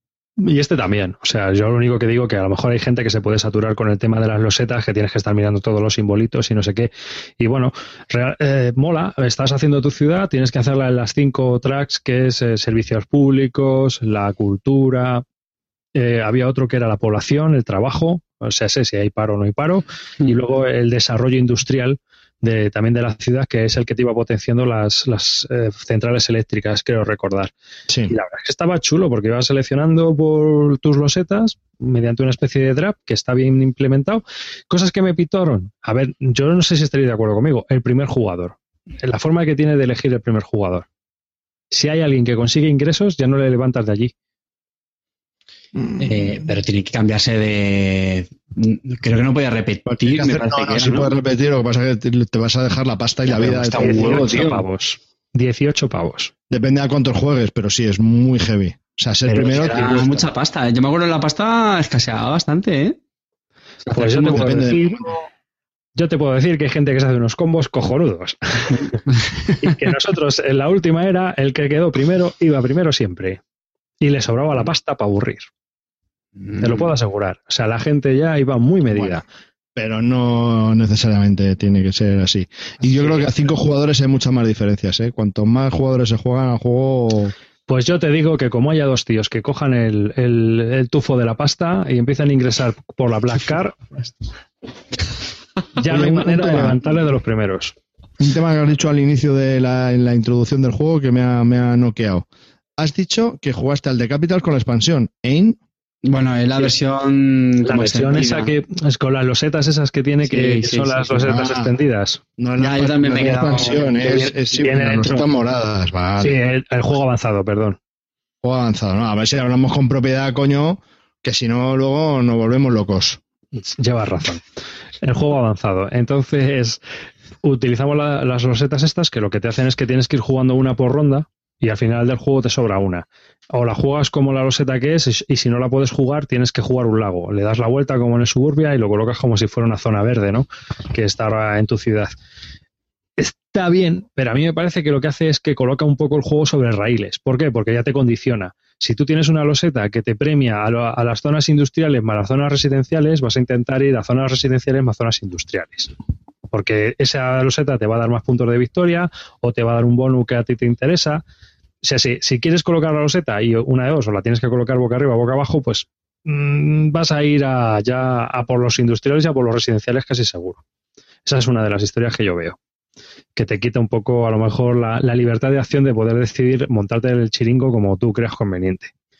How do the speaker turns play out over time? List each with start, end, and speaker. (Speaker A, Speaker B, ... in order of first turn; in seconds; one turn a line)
Speaker A: 0.4-15.2
Speaker A: 15.9-27.5
Speaker B: 27.9-28.1
Speaker A: 28.1-40.9
Speaker A: 41.7-44.1
Speaker B: 45.7-46.5
Speaker C: 46.0-51.1
Speaker B: 49.9-54.5
Speaker C: 53.3-54.6
Speaker A: 53.7-56.3
Speaker B: 56.5-60.3
Speaker C: 59.3-63.0
Speaker C: 63.9-64.8
Speaker A: 63.9-65.2
Speaker B: 64.3-65.0
Speaker A: 66.0-69.0
Speaker A: 69.6-73.4
Speaker A: 74.0-75.5
Speaker C: 76.4-76.9
Speaker A: 76.6-79.2
Speaker B: 78.8-79.2
Speaker B: 79.8-87.3
Speaker C: 82.9-83.3
Speaker A: 87.7-93.8
Speaker A: 95.8-97.7
Speaker B: 95.9-96.8
Speaker B: 98.2-102.2
Speaker B: 102.8-105.6
Speaker C: 106.0-108.5
Speaker A: 107.6-112.2
Speaker C: 110.2-111.3
Speaker B: 111.2-111.7
Speaker B: 112.4-116.4
Speaker C: 112.6-114.3
Speaker A: 114.5-115.2
Speaker A: 116.2-117.8
Speaker B: 118.4-123.2
Speaker A: 123.6-124.4
Speaker A: 125.0-126.8
Speaker A: 127.4-142.1
Speaker A: 143.2-155.9
Speaker A: 156.5-161.2
Speaker A: 161.8-170.6
Speaker A: 171.2-172.6
Speaker A: 173.3-178.9